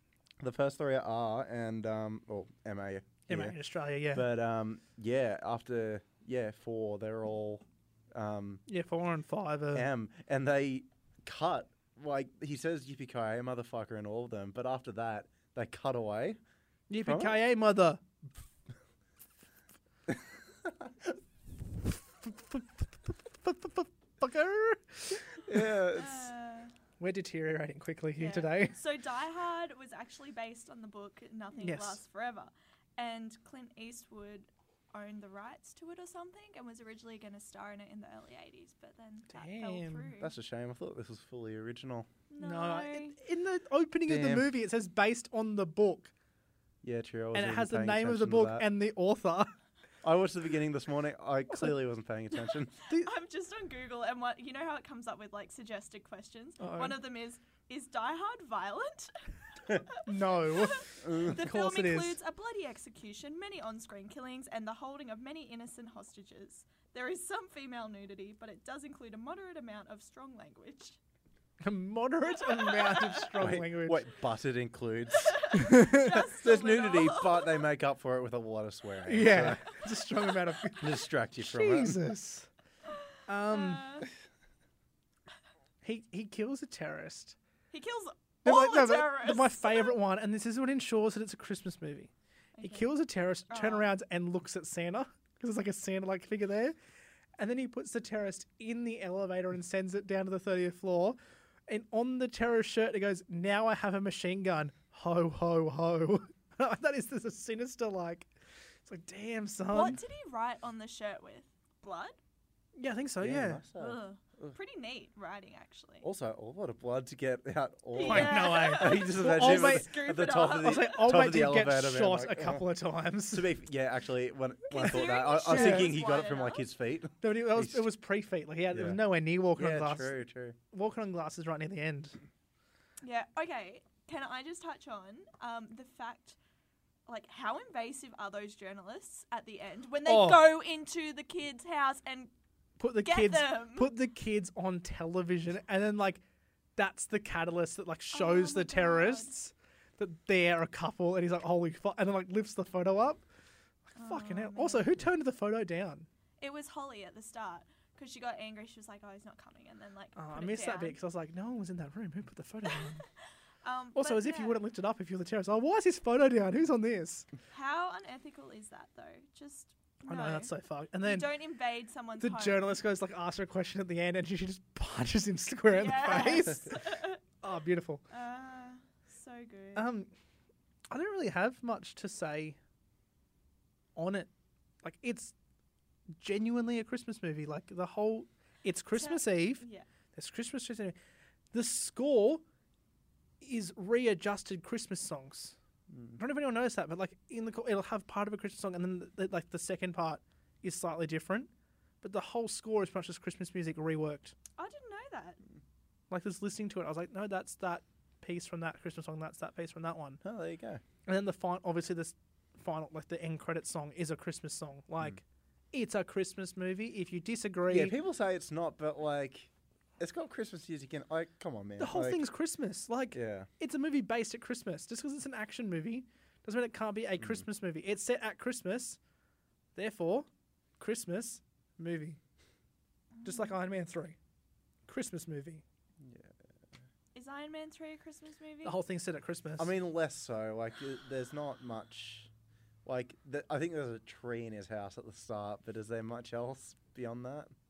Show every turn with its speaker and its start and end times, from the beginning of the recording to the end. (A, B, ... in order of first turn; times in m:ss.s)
0:00.4-0:03.6 A
0:03.3-0:04.3 B
0:04.1-0:08.6 A
0:08.7-0:09.9 B
0:09.7-0:16.4 A
0:16.9-0:18.0 B
0:17.0-0:17.4 A
0:21.9-0:25.6 B
0:25.2-0:26.3 A
0:25.9-0:26.7 C
0:27.0-0:28.8 B
0:28.2-0:40.3 C
0:31.6-0:32.0 B
0:39.3-0:40.1 B
0:40.2-0:42.1 A
0:42.3-0:43.2 C
0:42.4-0:46.1 B
0:44.1-0:44.5 A
0:46.8-0:48.7 A
0:47.3-0:49.5 B
0:50.0-0:52.7 A
0:52.9-1:11.0 C
0:56.6-0:57.0 B
1:00.0-1:02.2 B
1:01.0-1:01.4 A
1:11.6-1:14.1 B
1:12.3-1:13.3 C
1:13.4-1:19.6 A
1:15.1-1:17.6 C
1:15.5-1:16.1 B
1:19.0-1:22.5 B
1:20.8-1:22.0 A
1:23.3-1:24.0 B
1:23.5-1:24.1 C
1:25.8-1:27.4 B
1:27.7-1:29.9 C
1:28.4-1:36.7 B
1:32.6-1:32.9 C
1:33.5-1:33.9 C
1:37.4-1:41.2 B
1:41.7-1:48.3 B
1:48.8-1:50.0 B
1:49.7-1:52.2 C
1:52.8-1:53.6 B
1:53.2-1:54.5 A
1:53.8-1:56.0 C
1:56.0-2:02.7 A
1:57.9-2:01.0 C
1:58.0-1:59.9 B
2:00.4-2:03.5 B
2:03.3-2:07.9 A
2:04.7-2:06.6 C
2:05.5-2:05.9 B
2:07.2-2:10.1 B
2:08.7-2:09.0 A
2:09.6-2:10.6 A
2:10.7-2:12.2 B
2:13.0-2:16.4 C
2:17.1-2:22.3 C
2:20.0-2:20.5 B
2:22.8-2:26.2 B
2:23.0-2:23.9 C
2:26.8-2:33.2 B
2:28.1-2:29.3 C
2:33.9-2:36.1 B
2:34.0-2:35.0 C
2:36.4-2:41.0 C
2:40.2-2:43.0 B
2:42.6-2:43.1 C
2:43.6-2:44.6 C
2:43.9-2:47.3 B
2:47.5-2:50.5 C
2:50.0-2:51.3 B
2:51.0-2:52.8 C
2:52.2-2:58.0 B
2:55.7-2:57.2 C
2:58.1-2:59.9 C
2:59.7-3:00.1 B
3:00.9-3:02.6 B
3:04.0-3:04.3 B
3:04.8-3:05.3 B
3:06.2-3:11.0 B
3:08.9-3:09.9 C
3:11.5-3:12.4 B
3:13.4-3:15.6 B
3:15.9-3:16.2 A
3:16.2-3:21.5 B
3:22.0-3:24.3 B
3:24.6-3:25.4 C
3:26.1-3:30.2 B
3:30.2-3:30.8 A
3:31.0-3:38.0 B
3:37.7-3:42.2 A
3:41.8-3:49.0 B
3:43.1-3:43.5 A
3:49.7-3:50.3 B
3:50.8-3:52.2 B
3:53.2-3:53.6 C
3:53.2-3:54.2 B
3:54.9-3:55.6 B
3:56.0-3:56.4 A
3:57.1-3:58.8 C
3:58.6-3:59.7 B
3:59.6-4:02.3 A
4:02.8-4:07.5 A